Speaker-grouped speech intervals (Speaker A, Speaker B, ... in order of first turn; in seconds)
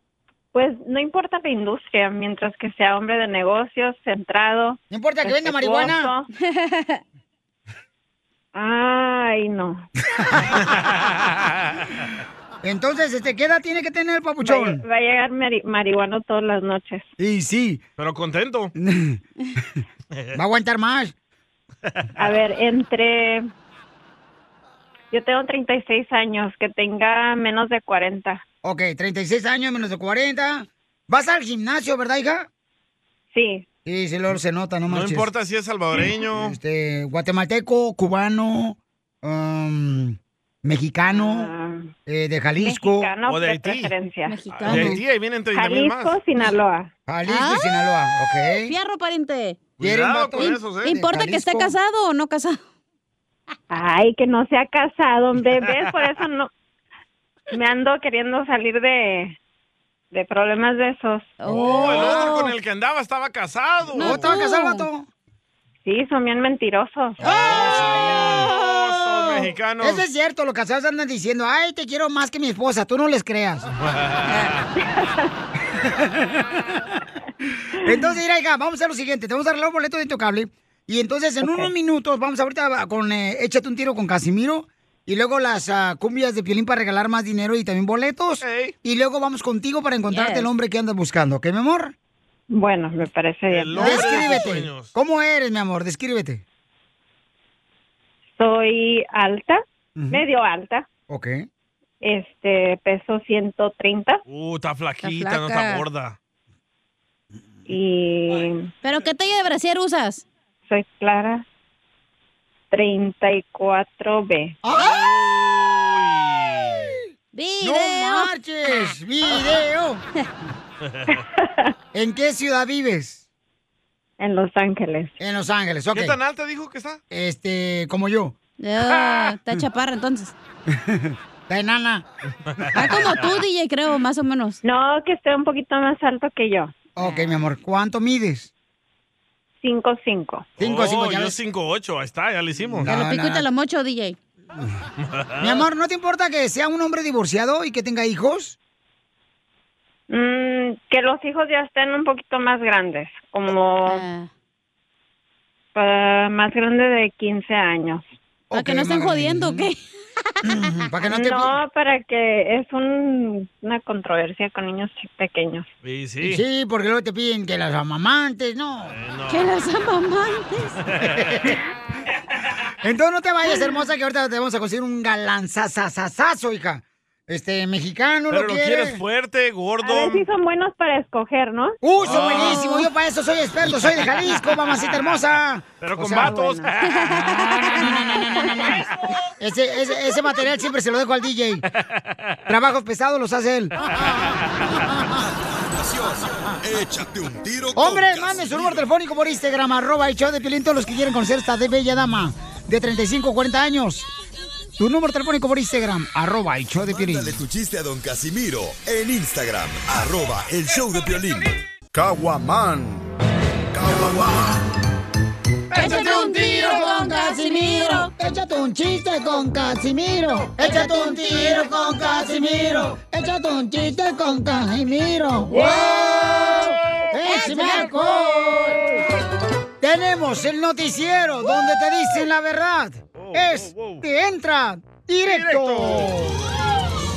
Speaker A: 0.5-6.2, 8.5-9.8, 14.4-17.0, 22.2-23.4, 25.1-28.4, 33.3-33.6, 41.1-41.8, 42.6-44.4, 45.5-46.9, 53.7-56.5, 57.5-59.3, 60.1-61.4, 65.8-67.2, 92.5-93.7, 98.4-99.6, 100.1-100.8, 102.0-104.2, 107.7-108.6, 110.7-111.4, 112.7-114.5, 124.2-125.1, 134.6-136.7, 139.6-140.4, 150.1-154.0, 155.8-158.0, 161.1-165.6, 179.8-181.7
Speaker B: 4.9-6.1, 10.1-10.6, 12.6-14.8, 17.2-17.8, 18.8-19.8, 20.3-21.1, 28.6-32.5, 33.8-35.3, 36.1-41.5, 42.0-43.1, 44.7-45.0, 47.1-48.7, 49.8-51.8, 61.5-62.4, 63.9-65.1, 67.2-73.7, 75.8-76.8, 77.7-91.9, 93.7-96.4, 100.0-100.2, 101.1-101.5, 114.6-115.0, 116.7-117.0, 117.6-120.0, 121.9-123.2, 125.2-126.2, 127.1-128.3, 130.7-132.1, 132.6-133.2, 136.9-138.5, 140.6-141.4, 142.7-143.4, 145.4-148.6, 158.5-159.7, 160.4-161.6, 166.2-169.0, 171.1-171.6, 172.8-179.0, 181.8-186.6, 187.4-191.7, 192.5-194.0, 197.7-204.1, 204.8-207.4, 215.7-228.8, 229.8-236.4
Speaker C: 6.4-7.0, 44.3-45.0, 47.3-47.7, 48.6-49.6, 50.4-52.6, 61.4-62.5, 63.9-64.9, 74.3-74.5, 90.1-90.5, 105.0-105.8, 108.8-110.2, 117.3-118.3, 128.6-130.3, 132.7-134.6, 137.0-137.4, 142.8-144.2, 153.8-154.3, 158.5-160.4, 169.3-170.8, 182.1-182.9, 186.8-188.5, 215.7-218.1, 220.7-221.4, 227.2-228.8
Speaker D: 10.6-11.8, 18.0-18.7, 34.9-36.6, 43.2-43.9, 44.5-46.2, 49.8-51.0, 55.6-56.0, 61.5-64.2, 67.3-70.0, 73.8-74.7, 88.4-88.7, 93.5-94.9, 104.3-106.2, 114.8-116.9, 120.8-121.2, 125.9-127.0, 132.6-132.9, 140.6-142.9, 145.0-145.6, 165.8-166.4, 168.9-169.5, 170.8-171.4, 178.3-180.2, 182.0-182.6, 184.9-185.2, 185.8-187.2, 191.8-192.3, 226.5-227.0, 233.1-234.0, 235.2-236.1
Speaker E: 195.2-198.8, 206.8-213.0, 213.7-214.4